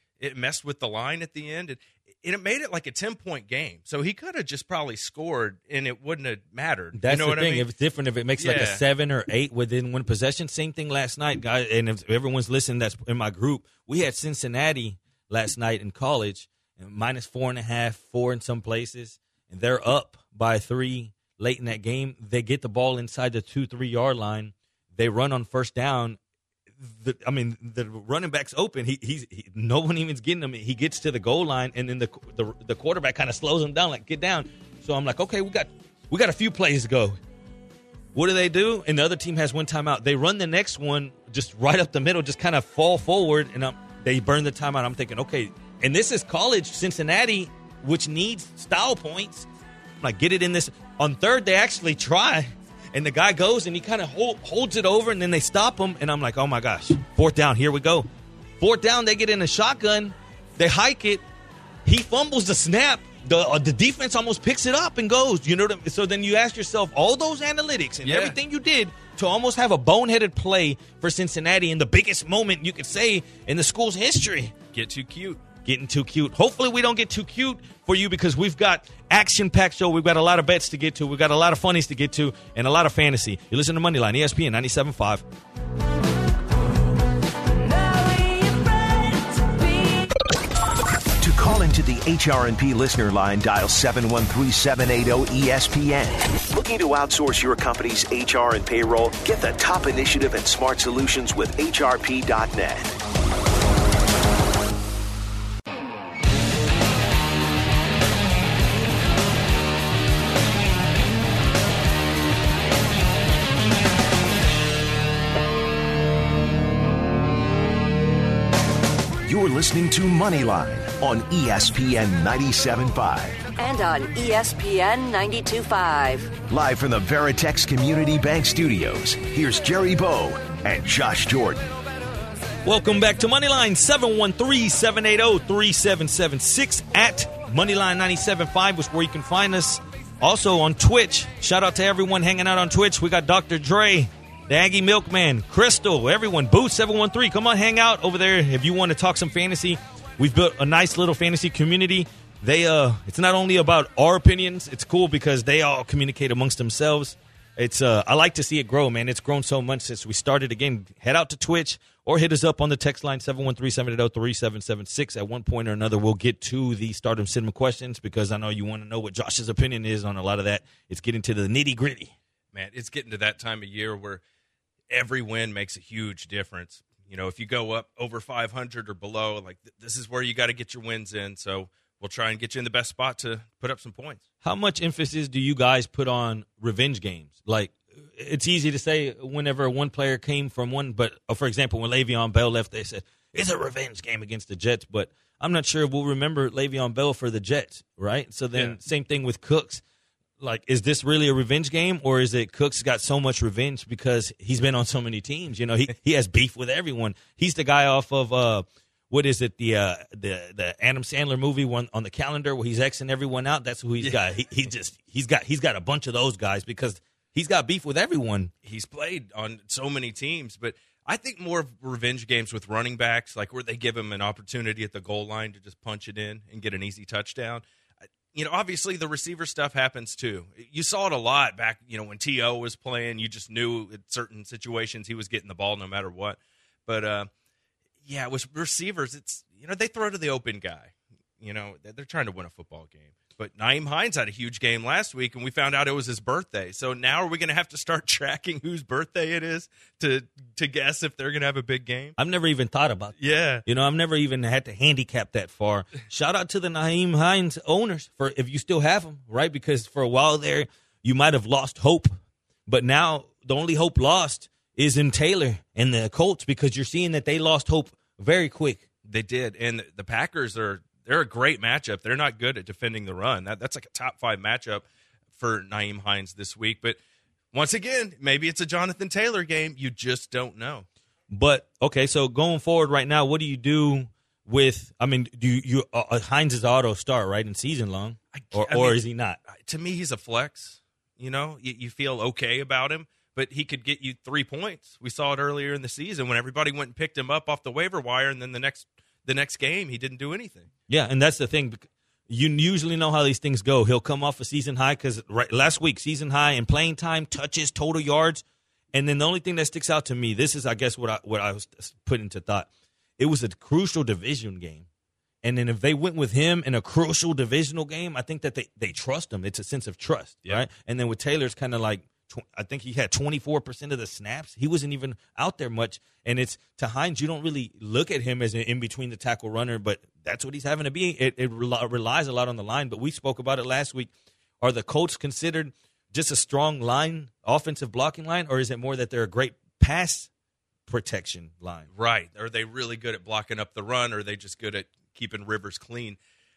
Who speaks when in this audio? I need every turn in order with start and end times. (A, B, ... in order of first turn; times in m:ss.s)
0:00.2-0:07.7 A
0:06.9-0:26.2 B
0:08.4-0:08.8 A
0:26.8-0:37.2 B
0:38.1-0:49.5 B
0:50.0-0:58.1 B
0:58.6-1:01.2 B
1:01.8-1:14.5 B
1:08.0-1:08.4 A
1:14.7-1:15.4 A
1:15.6-1:25.2 B
1:31.2-1:42.9 C
1:59.2-2:03.4 C
2:03.6-2:06.3 D
2:06.5-2:11.7 C
2:12.6-2:52.1 B
2:52.5-2:54.2 A
2:54.9-3:04.2 A
3:04.4-3:19.8 B
3:20.4-3:38.5 B
3:38.6-3:47.6 A
3:48.3-3:57.3 A
3:58.0-4:12.2 A
4:12.2-4:22.1 B
4:13.2-4:13.6 A
4:22.7-4:28.8 B
4:29.0-4:37.0 A
4:37.5-4:40.8 A
4:41.3-4:49.4 B
4:48.3-5:00.7 A
5:00.9-5:14.8 B
5:15.4-5:40.3 B
5:40.9-5:41.9 B
5:41.9-5:46.2 A